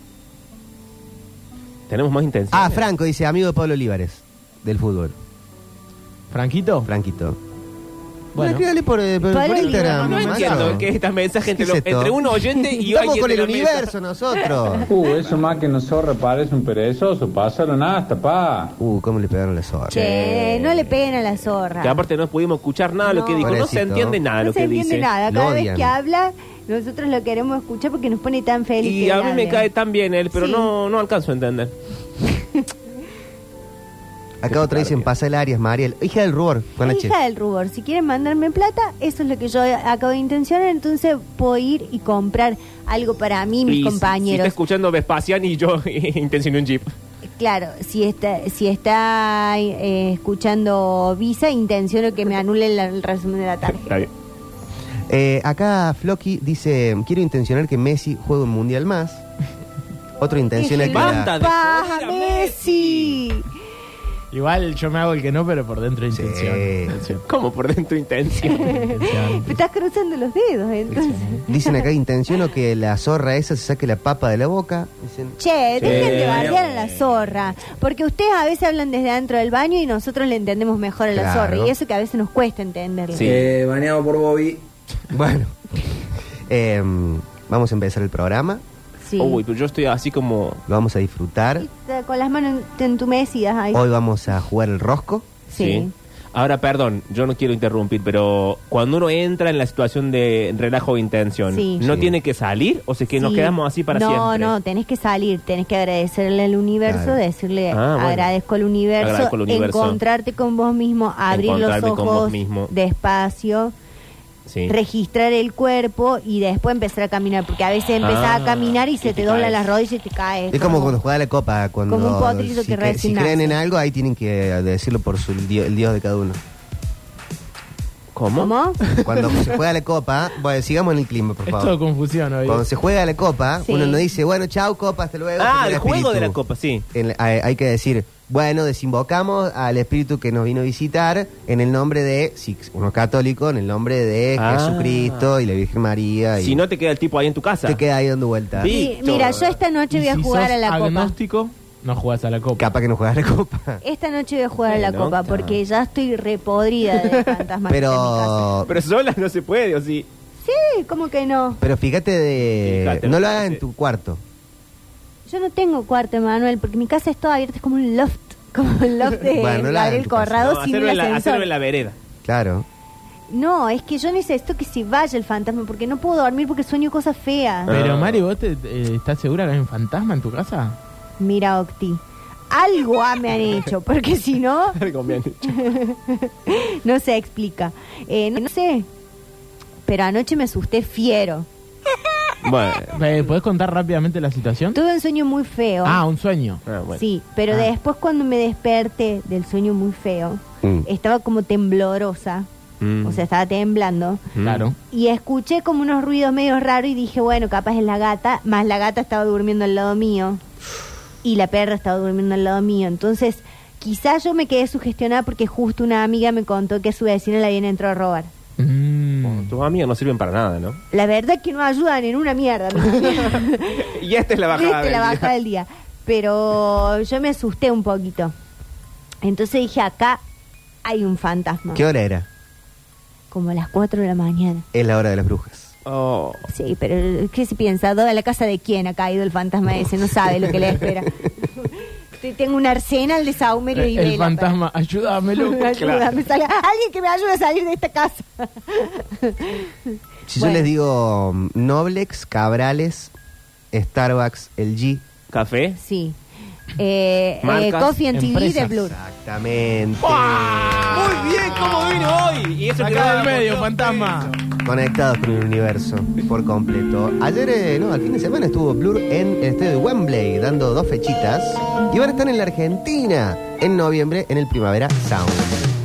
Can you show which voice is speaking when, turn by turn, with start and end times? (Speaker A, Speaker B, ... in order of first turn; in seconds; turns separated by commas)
Speaker A: 1.9-2.9, Speaker B: 2.5-5.2, Speaker C: 6.3-6.9, Speaker B: 6.9-7.4, Speaker C: 8.3-8.7, Speaker B: 8.4-10.9, Speaker D: 9.3-10.6, Speaker C: 9.4-10.8, Speaker A: 10.1-13.9, Speaker B: 11.4-12.2, Speaker B: 12.8-14.9, Speaker E: 14.9-18.8, Speaker B: 18.8-20.0, Speaker A: 19.9-20.9, Speaker D: 19.9-22.0, Speaker A: 21.8-25.1, Speaker D: 23.1-23.6, Speaker B: 23.4-24.2, Speaker D: 24.4-29.7, Speaker B: 25.3-25.9, Speaker A: 28.8-31.7, Speaker D: 30.3-30.7, Speaker B: 34.4-37.1, Speaker A: 34.5-35.1, Speaker D: 36.8-44.5, Speaker A: 43.7-46.9, Speaker D: 47.4-53.9, Speaker A: 53.7-54.1, Speaker B: 55.1-59.2, Speaker B: 60.2-61.3, Speaker D: 60.6-63.5, Speaker A: 60.8-63.2, Speaker C: 64.3-67.2, Speaker B: 66.1-67.0, Speaker A: 67.3-68.7, Speaker D: 68.4-71.8, Speaker C: 68.6-69.6, Speaker B: 71.5-75.4, Speaker D: 75.4-83.3, Speaker A: 75.8-77.4, Speaker F: 75.8-76.5, Speaker B: 81.1-81.7, Speaker A: 83.1-83.5, Speaker F: 83.2-84.6, Speaker B: 85.1-85.5, Speaker B: 86.5-88.6, Speaker D: 89.0-89.4, Speaker A: 89.2-90.6, Speaker B: 90.7-91.7, Speaker D: 91.6-93.8, Speaker B: 93.7-95.3, Speaker D: 95.5-95.9, Speaker A: 95.5-104.5, Speaker D: 101.5-101.8, Speaker B: 101.8-102.1, Speaker D: 103.2-113.7, Speaker B: 106.9-107.2, Speaker A: 107.7-108.3, Speaker A: 109.0-110.0, Speaker A: 111.3-112.7, Speaker A: 114.5-114.7, Speaker D: 114.7-121.0, Speaker A: 118.0-119.7, Speaker B: 120.5-126.4, Speaker D: 121.9-123.6, Speaker A: 128.2-129.5, Speaker D: 128.4-128.8, Speaker B: 129.0-131.8, Speaker C: 131.5-132.6, Speaker B: 132.4-136.4, Speaker D: 133.6-134.0, Speaker A: 135.4-136.8, Speaker B: 136.9-146.6, Speaker A: 144.4-145.3, Speaker A: 146.4-147.8, Speaker B: 147.7-148.7, Speaker A: 148.6-149.6, Speaker D: 148.6-151.2, Speaker C: 149.1-149.3, Speaker C: 149.9-152.7, Speaker B: 152.6-153.8, Speaker D: 153.8-158.5, Speaker A: 154.7-155.6, Speaker A: 156.9-157.4, Speaker B: 157.7-158.7, Speaker A: 158.7-160.1, Speaker D: 160.4-161.6, Speaker B: 161.6-164.2, Speaker A: 162.6-163.6, Speaker D: 165.3-171.5, Speaker B: 169.3-170.5, Speaker A: 170.4-172.0, Speaker B: 172.2-172.7, Speaker D: 173.3-177.7, Speaker A: 177.7-178.2, Speaker C: 177.7-180.8, Speaker D: 181.2-184.8, Speaker A: 184.8-185.6, Speaker D: 185.4-188.9, Speaker D: 189.9-191.5, Speaker A: 192.4-193.0, Speaker C: 192.9-194.8, Speaker D: 194.7-196.0, Speaker C: 195.8-196.6, Speaker A: 196.7-197.0, Speaker D: 196.9-202.5, Speaker B: 200.6-200.9, Speaker A: 202.8-203.2, Speaker D: 203.0-204.2, Speaker A: 204.3-204.7, Speaker C: 204.4-204.8, Speaker D: 204.9-210.4, Speaker D: 211.2-218.3, Speaker C: 218.6-219.5, Speaker A: 219.2-220.8, Speaker D: 220.9-223.9, Speaker A: 222.9-225.3, Speaker D: 224.5-228.3, Speaker D: 229.2-230.2, Speaker D: 230.8-231.8, Speaker B: 231.7-232.3, Speaker D: 233.3-234.7, Speaker B: 234.7-235.7, Speaker A: 235.9-236.5, Speaker D: 236.5-244.5, Speaker C: 243.7-245.7, Speaker D: 245.4-249.7, Speaker A: 245.8-246.1, Speaker B: 250.3-253.1, Speaker D: 250.4-250.7, Speaker B: 253.7-255.0, Speaker A: 255.3-255.8, Speaker D: 255.8-256.2, Speaker D: 256.8-259.0, Speaker A: 257.4-258.0, Speaker C: 258.1-258.7, Speaker B: 258.7-260.8, Speaker C: 260.0-264.3, Speaker A: 260.9-264.4, Speaker B: 264.6-275.6